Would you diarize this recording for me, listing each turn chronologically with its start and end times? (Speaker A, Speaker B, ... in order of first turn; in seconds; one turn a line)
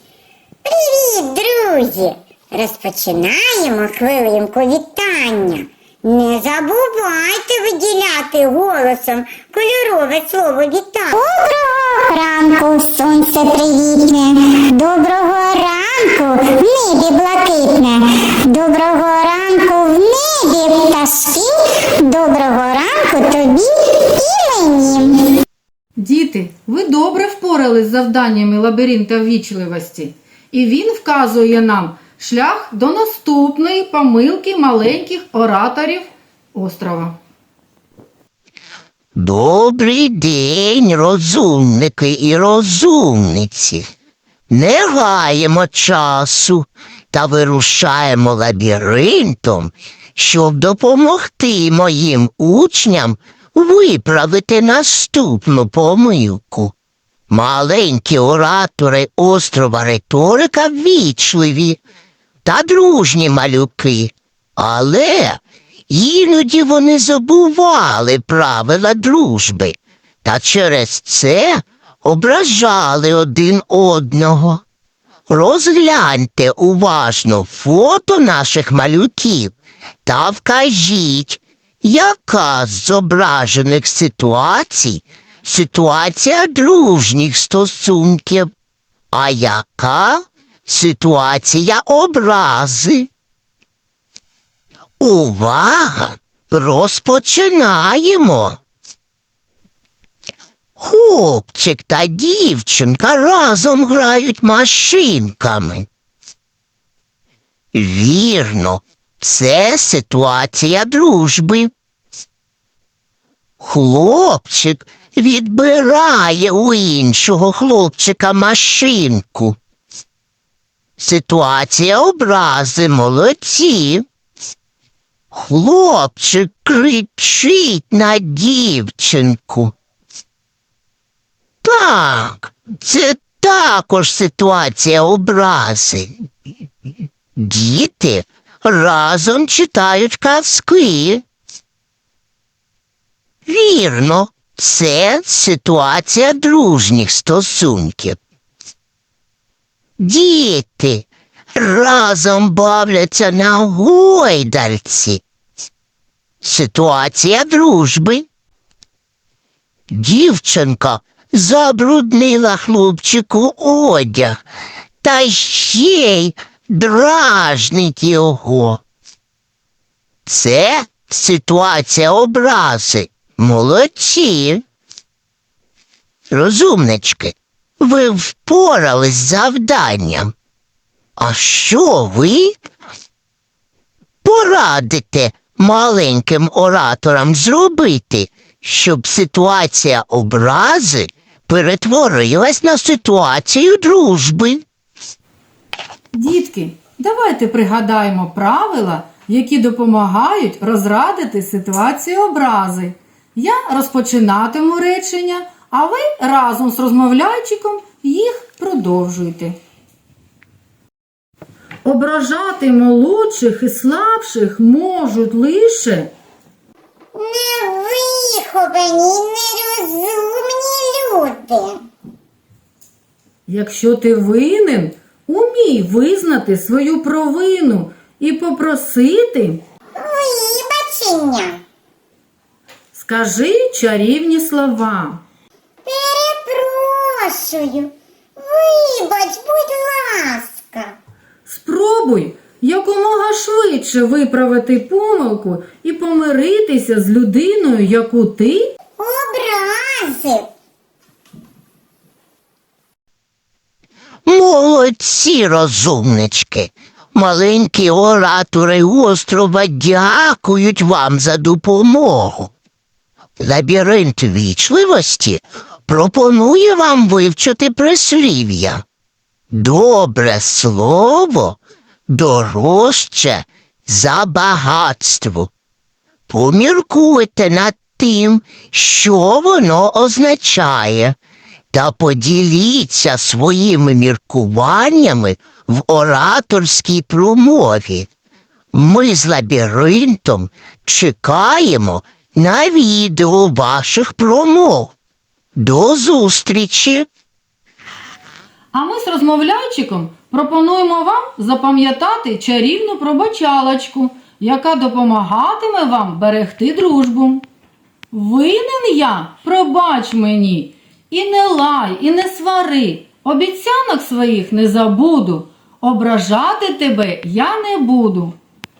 Speaker A: 0.6-25.3
Speaker B: 26.0-37.2
Speaker C: 39.1-43.8
Speaker C: 44.5-56.7
Speaker C: 57.3-61.8
Speaker C: 62.4-74.6
Speaker C: 75.3-79.5
Speaker C: 80.0-88.5
Speaker C: 89.1-93.1
Speaker C: 95.0-98.6
Speaker C: 100.8-105.9
Speaker C: 107.7-111.7
Speaker C: 113.6-119.6
Speaker C: 121.0-124.0
Speaker C: 125.3-129.7
Speaker C: 131.6-136.1
Speaker C: 137.3-141.2
Speaker C: 143.4-148.2
Speaker C: 150.0-155.2
Speaker C: 156.4-158.3
Speaker C: 159.9-164.4
Speaker C: 165.0-168.8
Speaker C: 170.2-174.6
Speaker C: 176.3-180.3
Speaker C: 181.2-182.6
Speaker C: 184.2-194.6
Speaker B: 196.1-209.6
Speaker B: 211.8-216.1
Speaker A: 217.1-221.8
Speaker B: 223.5-229.6
Speaker A: 229.9-231.6
Speaker B: 232.9-235.2
Speaker A: 235.8-240.9
Speaker B: 241.4-248.7
Speaker A: 249.0-250.5
Speaker C: 254.2-262.5
Speaker C: 263.4-268.8
Speaker C: 269.5-275.5
Speaker C: 276.3-281.1
Speaker C: 281.7-288.1
Speaker C: 288.7-294.9
Speaker C: 295.6-297.1
Speaker B: 298.7-307.4
Speaker B: 308.1-318.4